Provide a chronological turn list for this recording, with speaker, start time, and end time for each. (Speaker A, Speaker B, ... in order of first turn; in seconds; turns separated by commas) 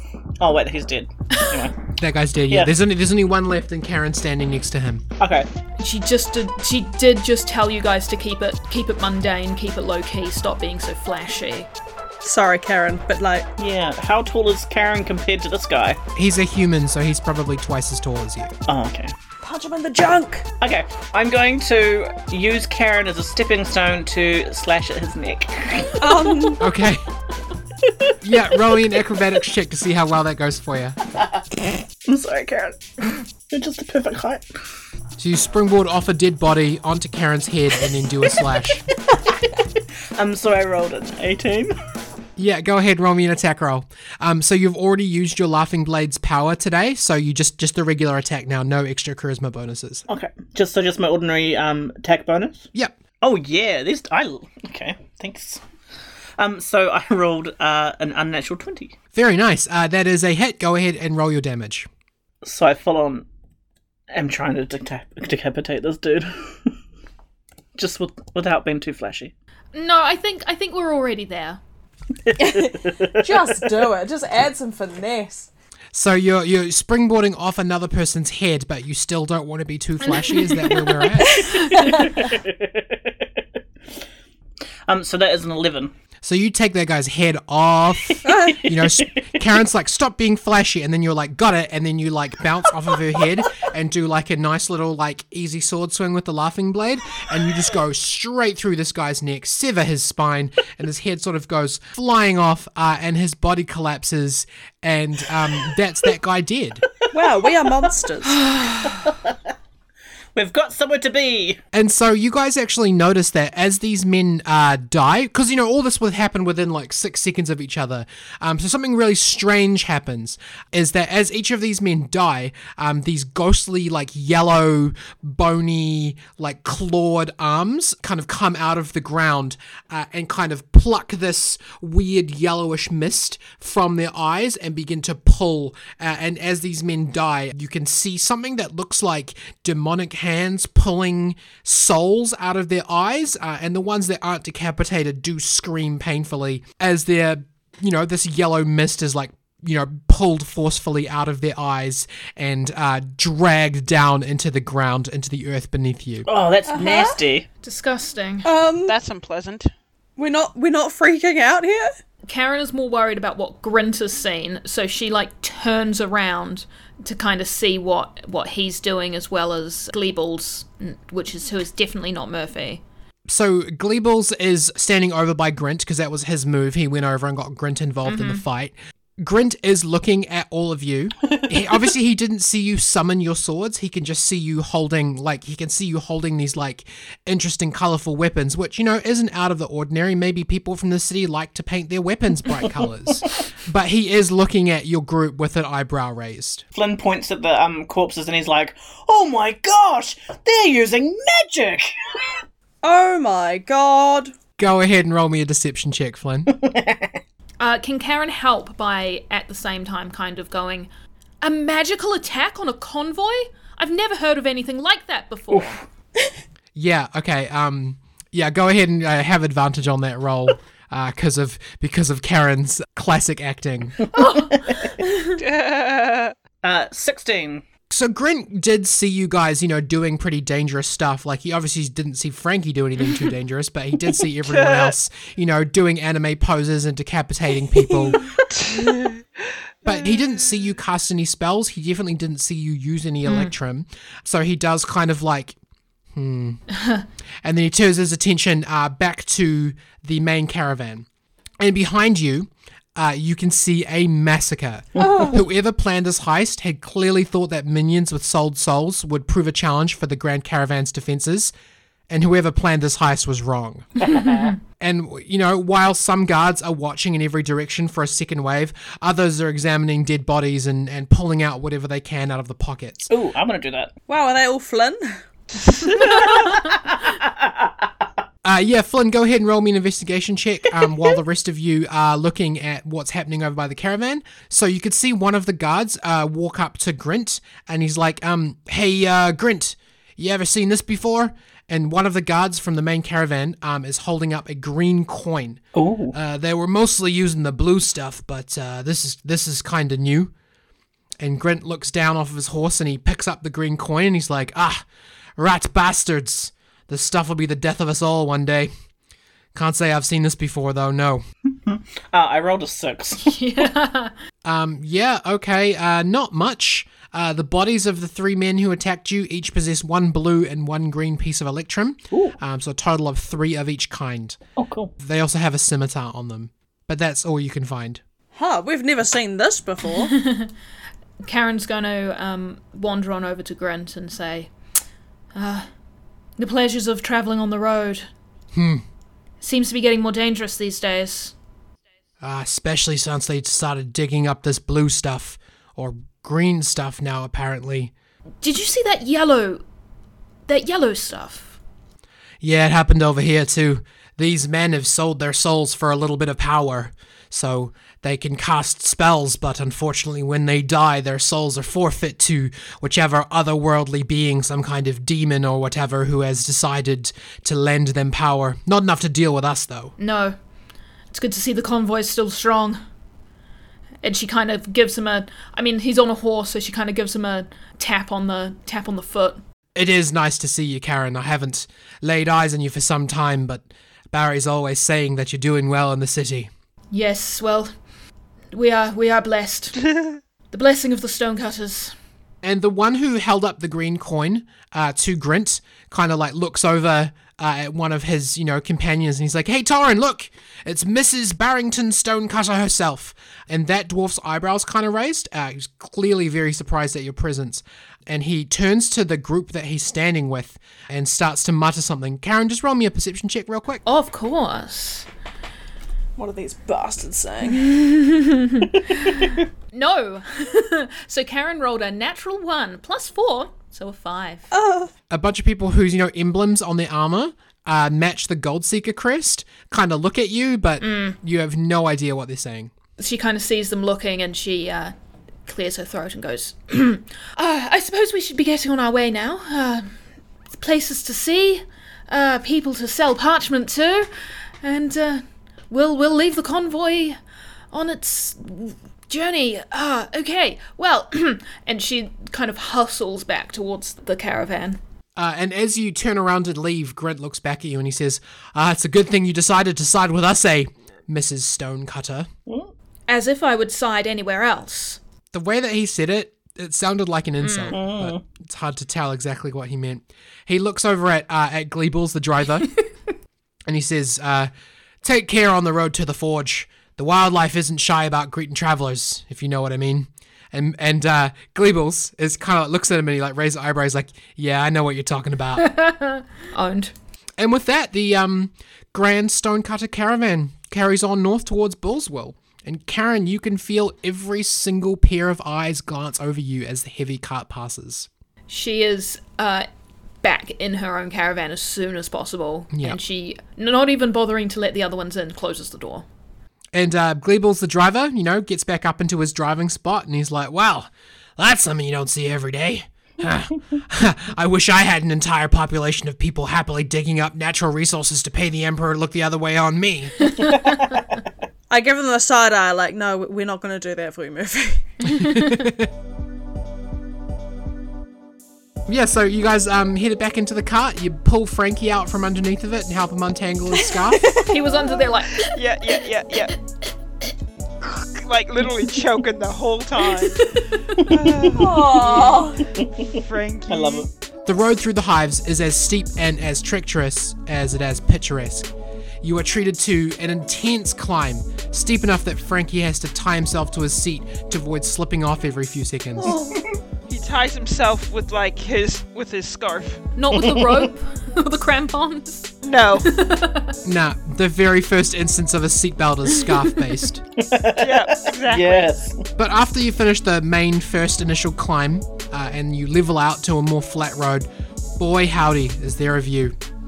Speaker A: 0.4-1.8, Speaker B: 2.0-5.0, Speaker A: 5.2-5.5, Speaker C: 5.8-11.7, Speaker D: 12.2-13.5, Speaker A: 13.6-16.0, Speaker B: 16.1-18.5, Speaker A: 18.7-19.1, Speaker D: 19.4-20.5, Speaker A: 20.6-26.5, Speaker D: 26.0-26.6, Speaker B: 26.6-27.1, Speaker A: 27.9-28.6, Speaker B: 28.2-31.0, Speaker A: 32.0-34.6, Speaker B: 35.2-38.8, Speaker A: 39.1-39.5, Speaker A: 40.1-41.7, Speaker B: 42.4-50.0, Speaker A: 50.1-52.7, Speaker A: 53.2-55.6, Speaker A: 56.4-58.9, Speaker B: 59.1-61.9, Speaker A: 62.4-63.2, Speaker A: 64.1-66.7, Speaker A: 67.8-69.3, Speaker C: 69.7-71.6, Speaker A: 72.2-73.5, Speaker D: 72.3-75.5, Speaker B: 75.9-81.5, Speaker C: 80.1-82.1, Speaker D: 81.3-82.2, Speaker A: 81.8-83.4, Speaker A: 84.9-85.9, Speaker B: 86.2-106.8, Speaker A: 88.1-89.4, Speaker D: 88.2-88.6, Speaker A: 107.0-107.9, Speaker D: 107.1-108.5, Speaker A: 108.4-109.3, Speaker A: 110.3-111.6, Speaker B: 111.7-156.3, Speaker A: 156.3-157.5, Speaker D: 156.7-157.2, Speaker C: 157.6-158.5, Speaker D: 158.4-158.9, Speaker E: 158.8-159.7, Speaker D: 160.2-161.9, Speaker C: 162.3-172.8, Speaker B: 173.3-196.6, Speaker C: 178.1-178.4, Speaker A: 196.7-202.4, Speaker D: 202.8-204.3, Speaker B: 204.6-206.5, Speaker A: 206.5-207.2, Speaker C: 207.6-210.9, Speaker C: 211.4-215.8, Speaker A: 215.5-215.8, Speaker B: 216.7-224.0, Speaker C: 224.1-225.3, Speaker E: 225.3-226.3, Speaker A: 226.6-227.6, Speaker B: 227.9-238.2, Speaker E: 234.5-234.9, Speaker E: 237.9-240.1, Speaker B: 239.8-245.6, Speaker C: 243.2-243.5, Speaker B: 246.1-246.6, Speaker B: 247.4-251.1, Speaker B: 251.6-261.5, Speaker A: 255.0-255.3, Speaker B: 262.1-263.9, Speaker A: 264.0-264.5, Speaker B: 264.8-273.1, Speaker A: 273.1-273.9, Speaker D: 274.1-275.2, Speaker E: 275.6-276.5, Speaker A: 276.0-277.8, Speaker B: 278.4-295.6, Speaker A: 295.7-296.1, Speaker B: 296.1-300.3, Speaker B: 301.2-304.9, Speaker B: 305.4-308.7, Speaker B: 309.5-311.2, Speaker A: 311.7-313.4, Speaker C: 313.2-314.1, Speaker B: 314.4-324.4, Speaker A: 324.6-324.9, Speaker B: 325.0-328.0, Speaker D: 328.3-330.1, Speaker C: 330.0-330.5, Speaker C: 331.2-334.5, Speaker C: 335.3-335.7, Speaker C: 336.4-338.1, Speaker B: 338.5-338.8, Speaker C: 339.4-341.3, Speaker B: 342.2-347.9, Speaker C: 348.4-349.6, Speaker C: 350.5-351.6, Speaker B: 352.4-369.9, Speaker C: 370.0-370.4, Speaker C: 371.1-372.8, Speaker C: 374.0-379.4, Speaker B: 379.7-386.5, Speaker C: 386.9-387.7, Speaker C: 388.5-389.9, Speaker C: 390.5-391.9, Speaker B: 392.4-413.8, Speaker C: 413.8-415.1, Speaker D: 416.2-417.7, Speaker C: 417.6-419.1, Speaker C: 419.7-424.5, Speaker D: 424.5-424.9, Speaker B: 425.1-432.7, Speaker C: 430.8-431.2, Speaker C: 433.0-434.9, Speaker C: 435.4-439.9, Speaker C: 440.5-447.2, Speaker C: 447.7-454.8, Speaker B: 455.1-462.3, Speaker C: 463.1-465.0, Speaker B: 465.3-472.7, Speaker C: 467.4-467.7, Speaker A: 467.7-468.2, Speaker B: 473.7-474.5, Speaker B: 475.0-485.6, Speaker C: 485.6-486.9, Speaker B: 487.4-498.1, Speaker C: 498.5-499.7, Speaker C: 500.2-506.1, Speaker B: 502.7-503.0, Speaker B: 506.7-520.3, Speaker C: 520.3-520.6, Speaker A: 520.5-520.8, Speaker D: 521.7-525.1, Speaker B: 525.1-525.9, Speaker C: 525.1-525.6, Speaker B: 528.9-534.3, Speaker D: 534.1-534.9, Speaker C: 534.5-536.0, Speaker E: 535.3-536.5, Speaker E: 538.0-542.4, Speaker C: 540.3-541.1, Speaker A: 541.4-542.0, Speaker D: 541.5-542.7, Speaker A: 542.8-543.1, Speaker E: 543.1-544.1, Speaker A: 543.7-544.1, Speaker B: 544.4-548.7, Speaker B: 549.2-556.4, Speaker D: 556.2-556.6, Speaker E: 557.1-560.0, Speaker C: 560.2-563.8, Speaker A: 560.3-560.9, Speaker E: 562.6-563.1, Speaker B: 563.8-567.2, Speaker A: 567.4-569.2, Speaker E: 567.8-568.9, Speaker B: 569.4-574.5, Speaker B: 575.0-576.5